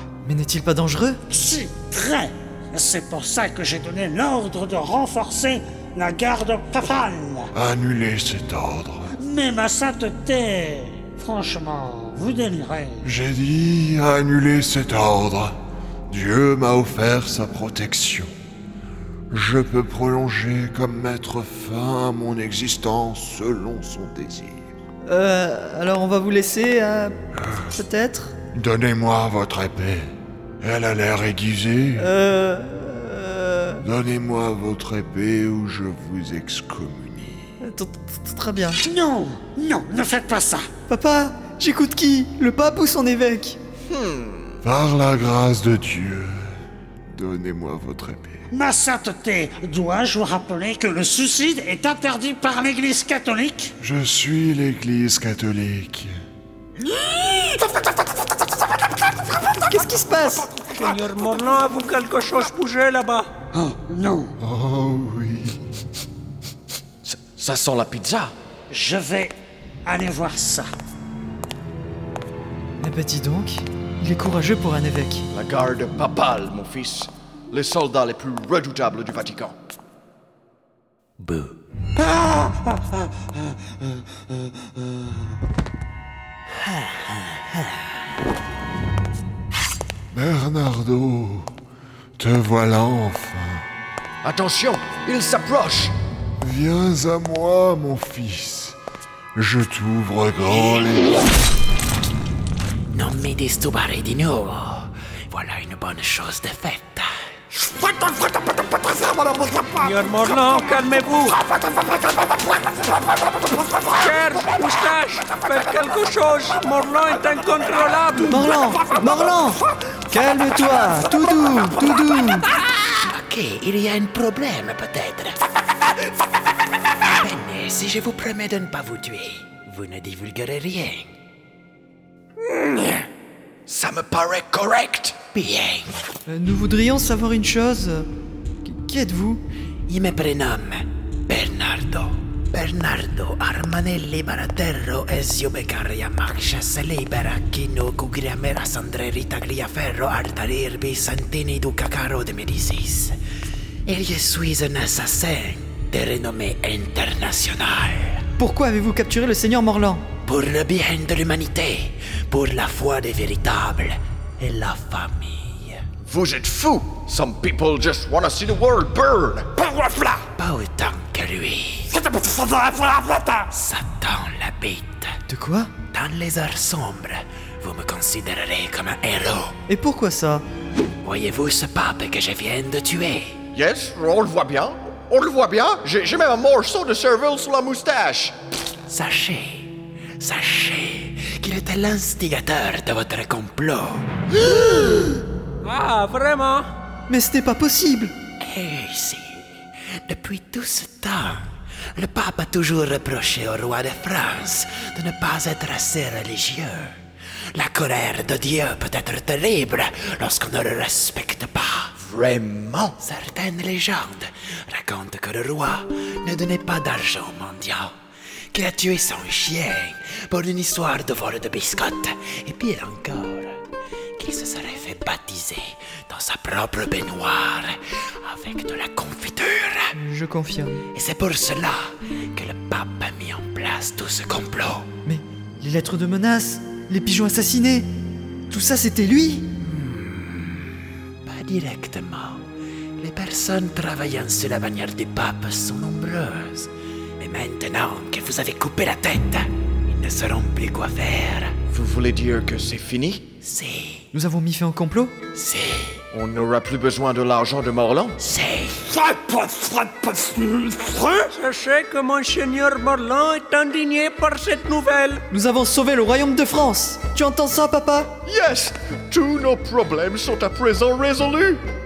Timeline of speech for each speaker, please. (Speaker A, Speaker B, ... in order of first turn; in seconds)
Speaker A: 0.3-1.2, 25.1-27.1, 27.8-28.3, 32.0-33.8, 37.7-38.8, 40.9-43.6, 59.7-60.4, 72.8-75.2, 118.3-119.6, 120.1-122.4, 136.3-138.1, 138.7-139.4, 158.4-160.0, 175.3-175.7, 179.7-180.4, 197.1-198.1, 230.0-230.8, 235.1-237.9, 238.5-239.5, 254.2-255.2, 265.3-268.1
Speaker B: 1.3-7.5, 9.2-13.0, 38.8-40.7, 48.5-53.7, 63.5-64.3, 68.7-69.3, 69.9-70.7, 169.8-170.2, 172.2-173.4
Speaker C: 7.5-9.1, 13.0-15.6, 16.1-18.3, 19.3-24.6, 28.5-30.1, 30.6-32.1, 33.8-37.5, 44.6-46.4, 47.1-48.5, 53.8-56.1, 64.4-65.6, 90.1-91.5, 92.2-93.6, 96.4-98.8, 99.3-101.1
Speaker D: 43.9-44.6, 67.0-68.3, 75.3-79.5, 94.2-95.9, 133.7-135.3, 166.0-169.5, 183.5-188.3, 251.7-253.4, 256.1-258.2, 268.2-271.6
Speaker E: 59.8-60.1, 81.2-81.5, 102.9-107.1, 118.3-119.4, 120.6-122.2, 123.0-125.4, 127.1-131.1, 135.3-136.0, 139.9-153.2, 153.9-158.2, 160.2-165.8, 170.4-171.9, 173.5-175.1, 175.8-179.6, 181.0-183.4, 188.9-194.1, 198.4-207.0, 207.6-217.9, 218.5-223.6, 224.2-234.9, 239.5-240.7, 241.2-242.5, 243.0-251.6, 253.4-254.2, 255.3-256.0, 258.2-259.0
Speaker F: 60.6-63.3, 109.8-111.4, 113.9-118.4, 195.6-196.7, 261.2-265.2